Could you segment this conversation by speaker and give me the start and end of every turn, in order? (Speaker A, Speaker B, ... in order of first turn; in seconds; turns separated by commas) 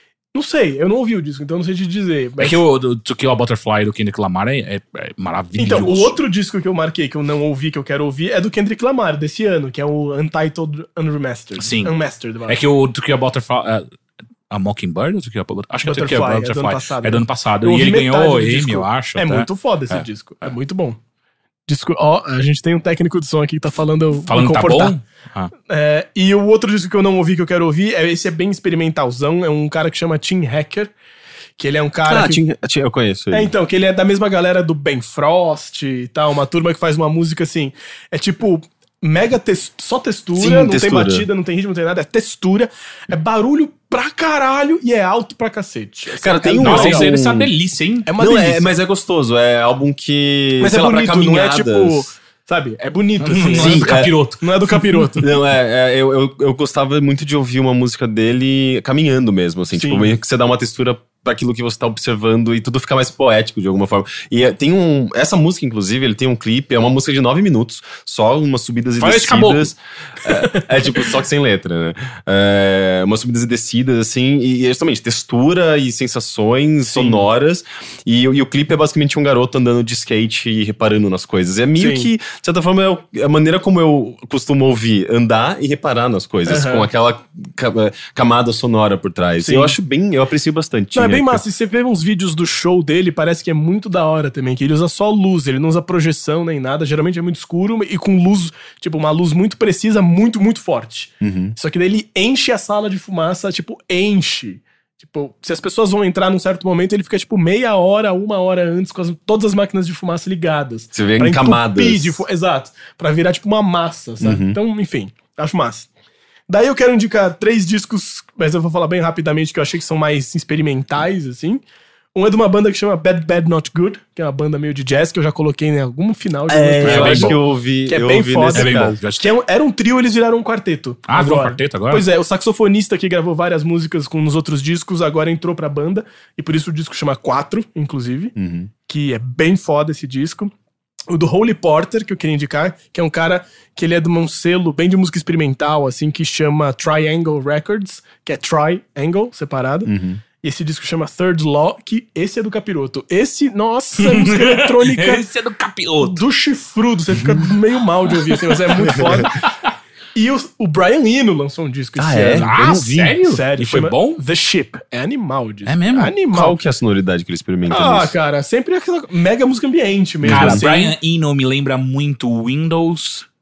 Speaker A: 0.3-2.6, Speaker B: 2.4-6.2, Speaker A: 5.6-12.6, Speaker B: 11.6-11.9, Speaker B: 12.5-13.8, Speaker B: 14.5-20.5, Speaker A: 15.8-21.0, Speaker A: 21.7-24.9, Speaker B: 24.2-25.5, Speaker A: 25.7-30.9, Speaker A: 31.6-32.4, Speaker C: 32.1-33.5, Speaker A: 33.3-47.1, Speaker C: 40.4-41.3, Speaker C: 46.2-47.5, Speaker B: 46.6-48.1, Speaker A: 48.1-48.7, Speaker C: 48.2-52.1, Speaker A: 50.6-55.3, Speaker B: 53.2-55.0, Speaker C: 53.5-54.1, Speaker C: 55.2-91.4, Speaker A: 59.7-60.1, Speaker B: 69.0-69.7, Speaker A: 76.9-77.2, Speaker A: 81.8-82.1, Speaker A: 86.5-86.9, Speaker A: 89.4-89.7, Speaker A: 90.9-115.9, Speaker C: 101.2-101.5, Speaker C: 110.9-112.2, Speaker C: 114.2-114.6, Speaker A: 116.5-121.6, Speaker A: 122.1-138.3, Speaker C: 126.5-129.0, Speaker B: 126.8-127.4, Speaker B: 128.5-129.3, Speaker B: 131.1-132.1, Speaker C: 138.3-138.7, Speaker A: 138.9-140.5, Speaker A: 141.1-155.2, Speaker C: 149.8-150.2, Speaker B: 154.0-156.2, Speaker A: 156.0-159.3, Speaker B: 159.0-159.4, Speaker A: 160.1-162.6, Speaker C: 162.0-163.2, Speaker B: 162.4-164.2, Speaker A: 163.2-166.6, Speaker B: 165.7-166.1, Speaker C: 166.3-168.1, Speaker A: 167.7-170.9, Speaker C: 170.2-170.6, Speaker B: 170.3-173.2